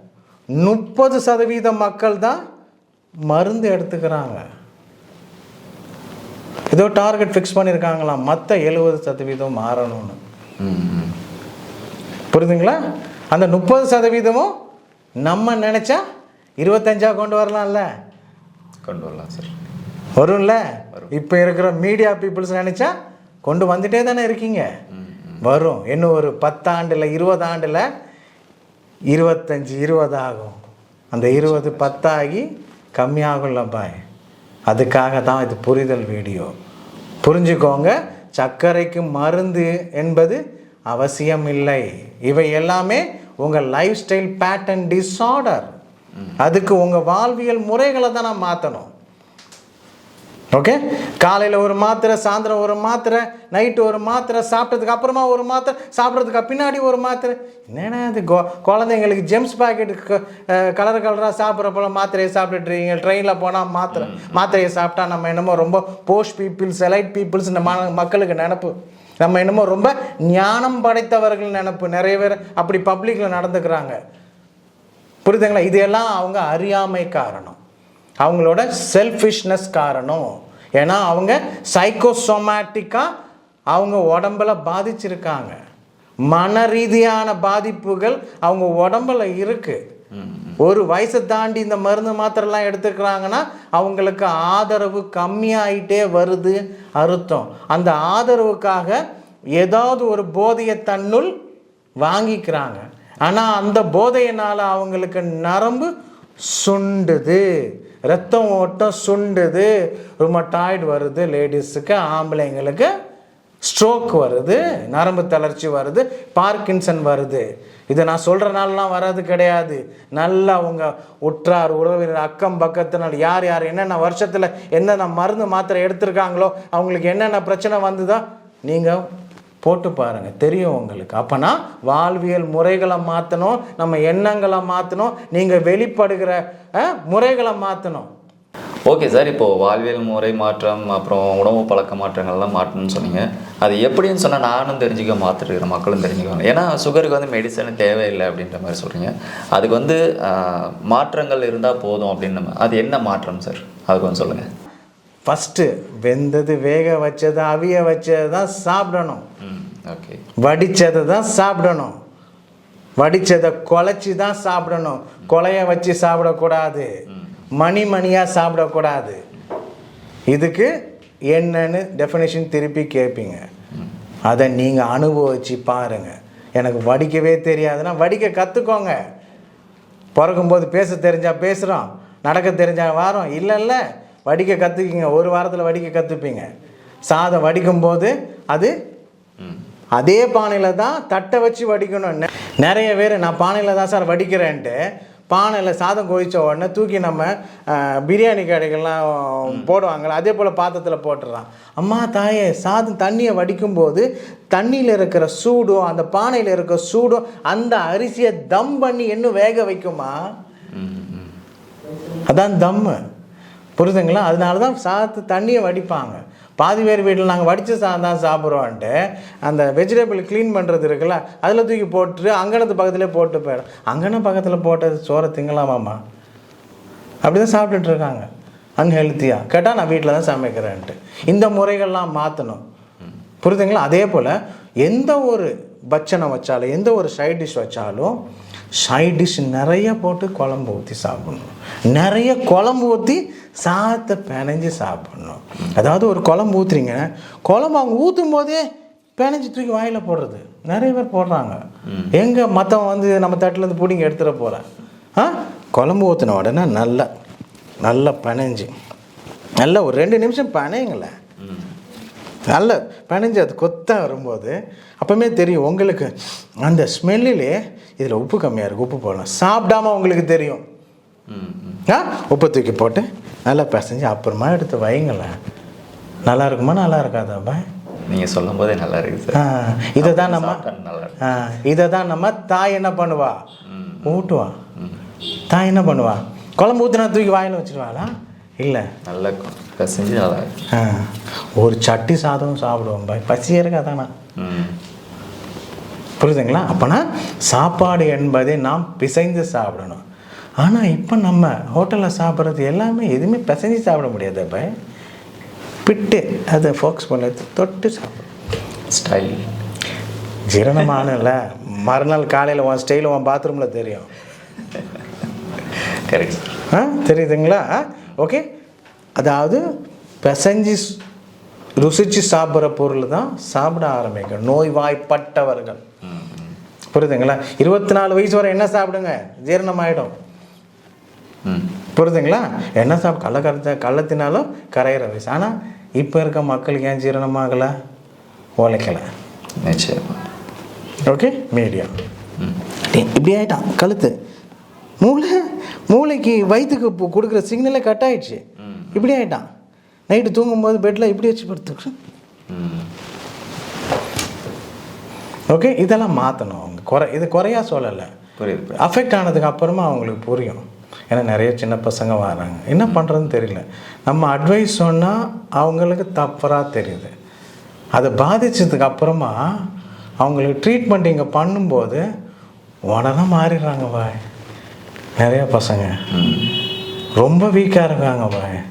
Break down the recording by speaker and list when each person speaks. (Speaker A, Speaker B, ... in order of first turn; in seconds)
Speaker A: 0.6-2.4, 3.3-4.4, 6.7-10.2, 12.3-12.8, 13.3-14.5, 15.2-16.0, 16.6-17.9, 20.2-20.6, 21.1-22.9, 23.4-24.7, 25.4-27.8, 29.1-30.6, 31.1-34.0, 34.7-36.5, 37.2-45.7, 46.4-48.9, 50.5-74.0, 75.2-77.6, 78.2-80.3, 80.8-83.1, 83.7-85.5, 86.3-89.8, 90.6-99.0, 99.6-101.3, 102.0-105.9, 106.5-107.5, 108.0-112.9, 113.6-129.0, 129.6-138.1, 155.2-159.2, 160.4-161.9, 163.0-166.9, 167.6-169.2, 170.3-170.7, 171.3-173.4, 174.3-179.0, 180.1-186.5, 187.1-188.7, 190.0-194.8, 195.3-210.1, 212.3-213.0, 213.8-218.9, 219.4-226.0, 227.2-228.3, 228.8-232.6, 233.4-238.1, 238.8-248.6, 249.2-251.6, 252.1-254.6, 255.2-257.1, 257.8-258.7, 259.6-261.1, 262.5-266.1, 266.6-270.6, 271.9-275.3, 276.3-277.6, 279.3-280.6, 281.2-283.4, 284.0-284.6, 285.5-288.1, 288.6-288.9, 290.7-294.1, 296.2-300.0, 300.6-304.7, 305.9-308.3, 310.5-314.1, 316.7-318.4, 319.2-319.6, 320.2-321.0, 321.8-325.8, 326.9-330.1, 331.9-337.7, 338.6-339.1, 341.1-341.9, 342.9-344.1, 345.0-348.4, 348.9-349.4, 350.1-351.9, 355.5-358.1, 358.8-367.1, 368.0-369.4, 370.2-372.0, 372.9-374.2, 375.2-375.9, 377.2-378.6
Speaker B: 10.6-11.1, 18.8-19.5, 24.9-25.4, 31.4-32.0, 63.9-64.6, 90.1-90.5, 138.9-154.5, 159.4-160.2, 167.1-167.4, 199.5-199.7, 210.7-211.4, 251.9-252.1, 261.4-261.7, 271.3-271.8, 278.1-279.4, 280.0-281.4, 283.7-285.0, 289.0-290.6, 294.4-294.8, 308.9-309.4, 315.8-316.6, 326.0-326.6, 331.4-331.7, 339.6-340.2, 348.6-349.0, 352.5-352.9, 358.4-358.9, 376.1-376.6